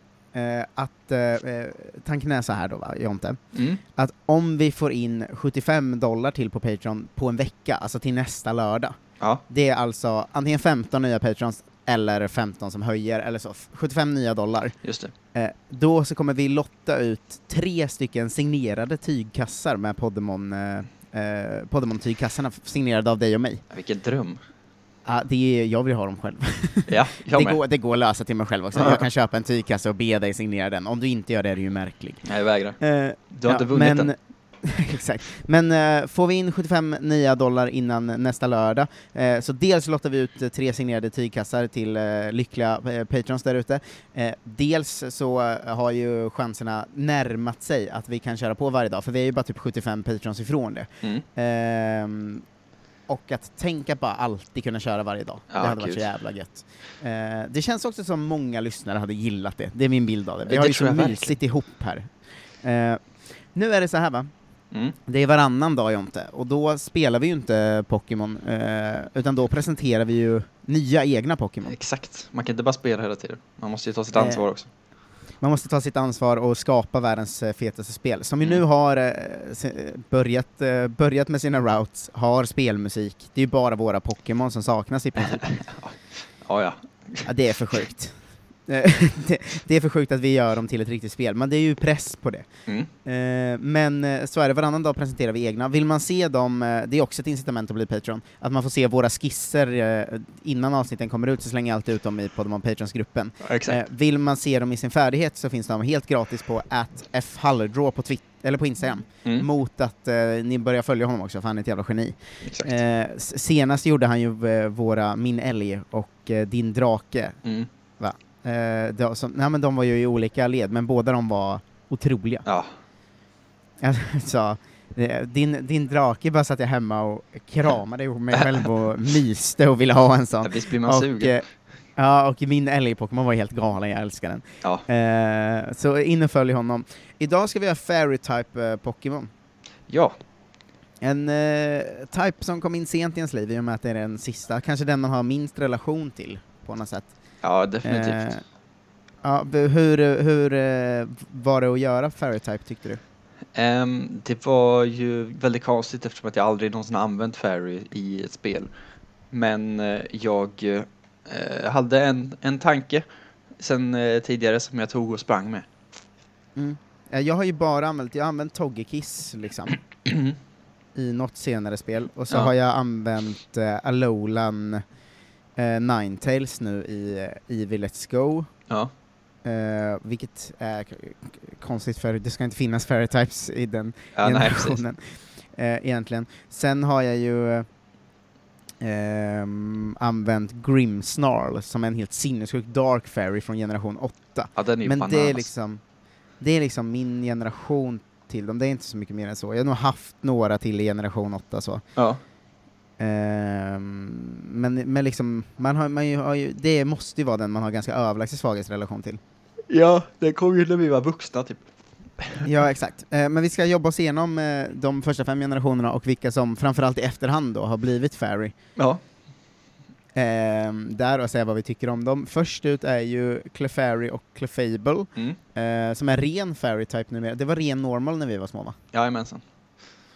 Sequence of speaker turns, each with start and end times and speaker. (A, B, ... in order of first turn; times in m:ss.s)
0:00.3-0:03.4 A
0:03.5-0:03.8 B
0:04.0-0:14.8 A
0:14.8-0:15.1 B
0:15.3-0:23.6 A
0:23.7-0:24.4 B
0:25.1-0:32.2 A
0:26.9-0:27.6 B
0:28.7-0:29.0 B
0:32.2-0:32.8 B
0:32.8-0:52.4 A
0:33.3-0:34.1 B
0:53.1-1:02.1 A
0:55.5-0:56.1 B
1:00.5-1:01.4 B
1:02.6-1:03.0 A
1:03.5-1:04.3 A
1:05.1-1:11.8 A
1:11.7-1:14.7 B
1:14.1-1:14.4 A
1:15.4-1:25.6 A
1:25.2-1:27.8 B
1:27.2-1:28.2 A
1:28.7-1:32.5 A
1:33.0-1:57.4 A
1:43.4-1:43.8 B
1:52.4-1:52.8 B
1:58.0-2:02.4 A
2:02.5-2:02.7 B
2:03.8-2:11.4 A
2:10.4-2:11.4 B
2:12.0-2:19.3 A
2:19.9-2:20.2 B
2:21.0-2:27.1 A
2:27.4-2:28.3 B
2:27.8-2:28.4 A
2:29.2-2:33.0 A
2:33.5-2:38.7 B
2:39.3-2:43.0 B
2:43.6-2:45.7 B
2:46.6-2:49.8 A
2:50.1-2:50.4 B
2:51.0-2:54.8 A
2:55.6-2:58.5 A
2:59.4-3:05.0 A
3:04.2-3:04.8 B
3:05.5-3:07.7 A
3:08.8-3:15.8 A
3:14.6-3:15.5 B
3:16.4-3:21.8 A
3:23.0-3:29.2 A
3:29.7-3:31.7 B
3:32.2-3:32.5 B
3:32.4-3:38.5 A
3:38.8-3:39.0 B
3:40.2-3:48.8 A
3:48.9-3:49.4 B